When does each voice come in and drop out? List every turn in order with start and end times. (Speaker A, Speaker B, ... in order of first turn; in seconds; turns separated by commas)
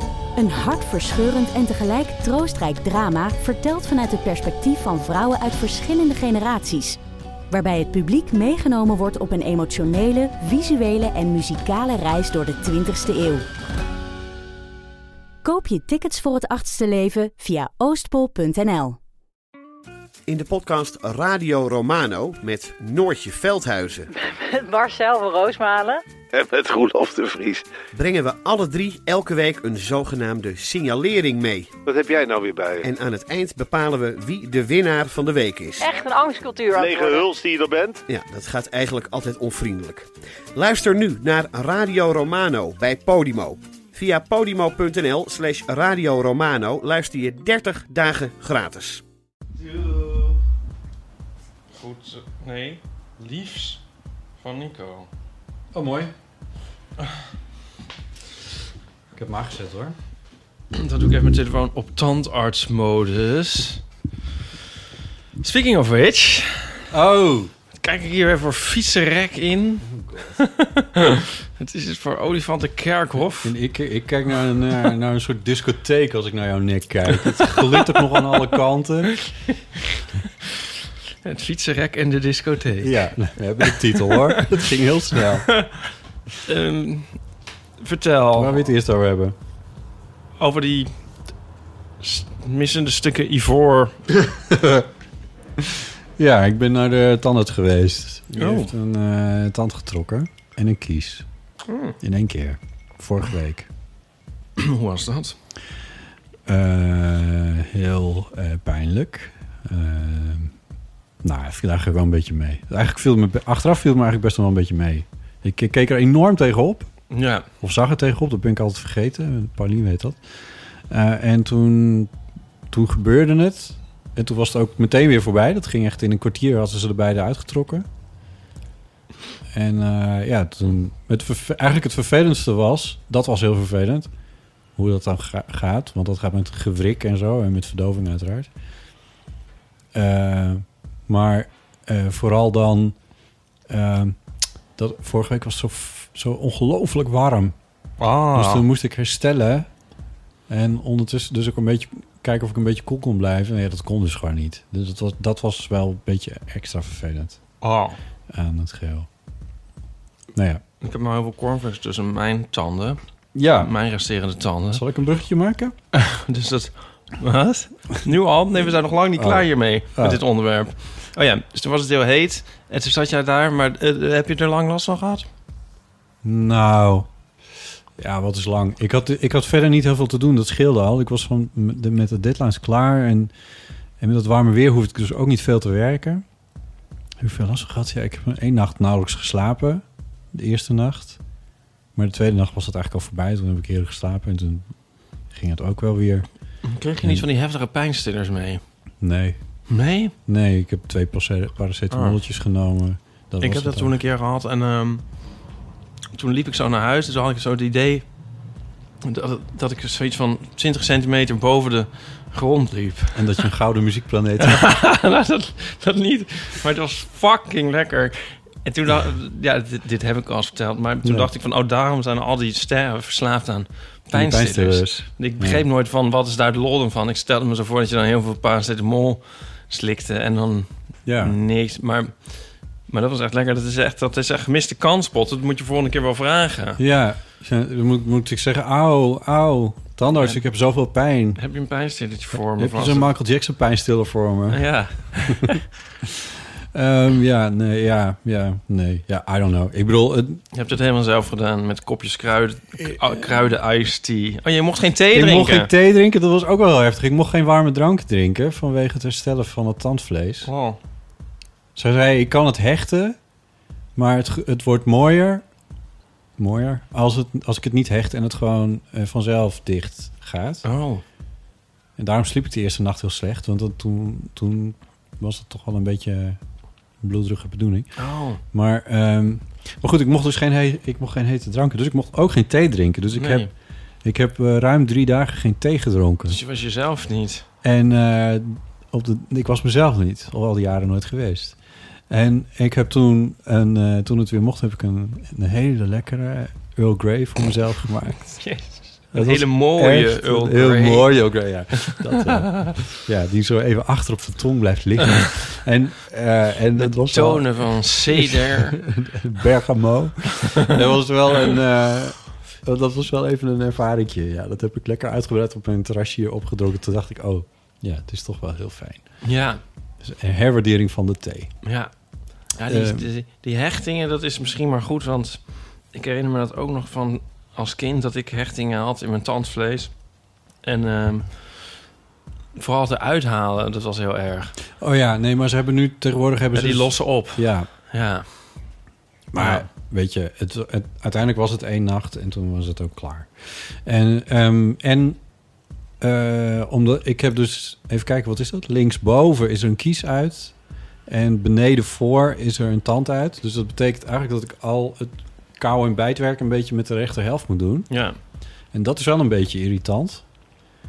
Speaker A: 0.4-7.0, Speaker A: 7.5-13.5, Speaker A: 15.4-19.0, Speaker B: 20.3-24.1, Speaker C: 24.1-26.0, Speaker D: 26.3-27.6, Speaker B: 27.9-31.7, Speaker D: 31.9-32.9, Speaker B: 32.8-35.9, Speaker C: 35.8-37.3, Speaker D: 36.7-38.0, Speaker B: 38.1-49.0, Speaker E: 51.8-53.8, Speaker E: 54.4-55.1, Speaker F: 55.7-56.1, Speaker F: 59.1-60.0, Speaker E: 60.7-63.8, Speaker E: 65.4-66.8, Speaker F: 66.9-67.5, Speaker E: 67.8-69.9, Speaker F: 69.8-70.4, Speaker E: 70.4-73.5, Speaker F: 73.4-79.4, Speaker E: 81.2-84.5, Speaker F: 82.8-85.7, Speaker E: 85.5-85.8, Speaker E: 86.5-88.7, Speaker F: 88.3-89.3, Speaker E: 90.4-91.3, Speaker E: 92.0-94.1, Speaker F: 94.2-94.9, Speaker F: 96.2-101.3, Speaker E: 98.4-98.7, Speaker E: 101.7-102.0, Speaker F: 102.0-103.7, Speaker E: 104.6-105.4, Speaker F: 106.5-110.5, Speaker F: 111.2-122.1, Speaker E: 117.1-117.5, Speaker F: 122.7-127.9, Speaker F: 129.5-134.1, Speaker F: 134.8-138.5, Speaker F: 139.9-143.0, Speaker F: 143.7-144.2, Speaker F: 144.8-147.5, Speaker E: 148.0-148.6, Speaker F: 148.3-149.8, Speaker F: 150.5-157.5, Speaker E: 157.6-158.0, Speaker F: 158.3-159.1, Speaker F: 160.3-160.6, Speaker E: 160.8-164.8, Speaker F: 163.3-163.7, Speaker F: 164.7-165.8, Speaker E: 165.9-175.3, Speaker F: 169.2-170.2, Speaker F: 176.2-177.1, Speaker F: 178.0-183.3, Speaker F: 184.0-186.2, Speaker F: 187.2-191.2, Speaker F: 191.9-197.2, Speaker E: 196.6-198.9, Speaker F: 199.0-203.9, Speaker E: 199.7-200.1, Speaker E: 201.9-202.2, Speaker E: 203.4-205.4, Speaker E: 206.1-208.5, Speaker E: 209.0-213.5, Speaker F: 213.1-214.8, Speaker E: 214.4-236.8, Speaker F: 221.0-221.3, Speaker F: 224.1-225.6, Speaker F: 231.1-231.4, Speaker F: 236.8-241.4, Speaker E: 241.4-243.1, Speaker F: 242.3-245.3, Speaker E: 244.5-245.6, Speaker F: 246.7-250.4, Speaker E: 250.5-255.7, Speaker F: 252.8-253.3, Speaker F: 255.1-260.5, Speaker E: 260.4-260.8, Speaker F: 261.8-263.2, Speaker F: 263.9-265.5, Speaker F: 266.4-270.6, Speaker E: 270.6-271.0, Speaker F: 271.9-286.4, Speaker E: 277.9-278.4, Speaker E: 283.1-283.5, Speaker E: 286.3-287.4, Speaker F: 287.6-321.7, Speaker E: 298.2-301.5, Speaker E: 302.4-302.7, Speaker E: 306.8-308.8, Speaker E: 319.2-319.6, Speaker E: 321.6-331.8, Speaker F: 322.7-323.1, Speaker E: 332.6-334.6, Speaker F: 334.8-337.7, Speaker E: 336.5-338.8, Speaker F: 339.3-360.5, Speaker E: 339.4-339.7, Speaker E: 357.9-358.2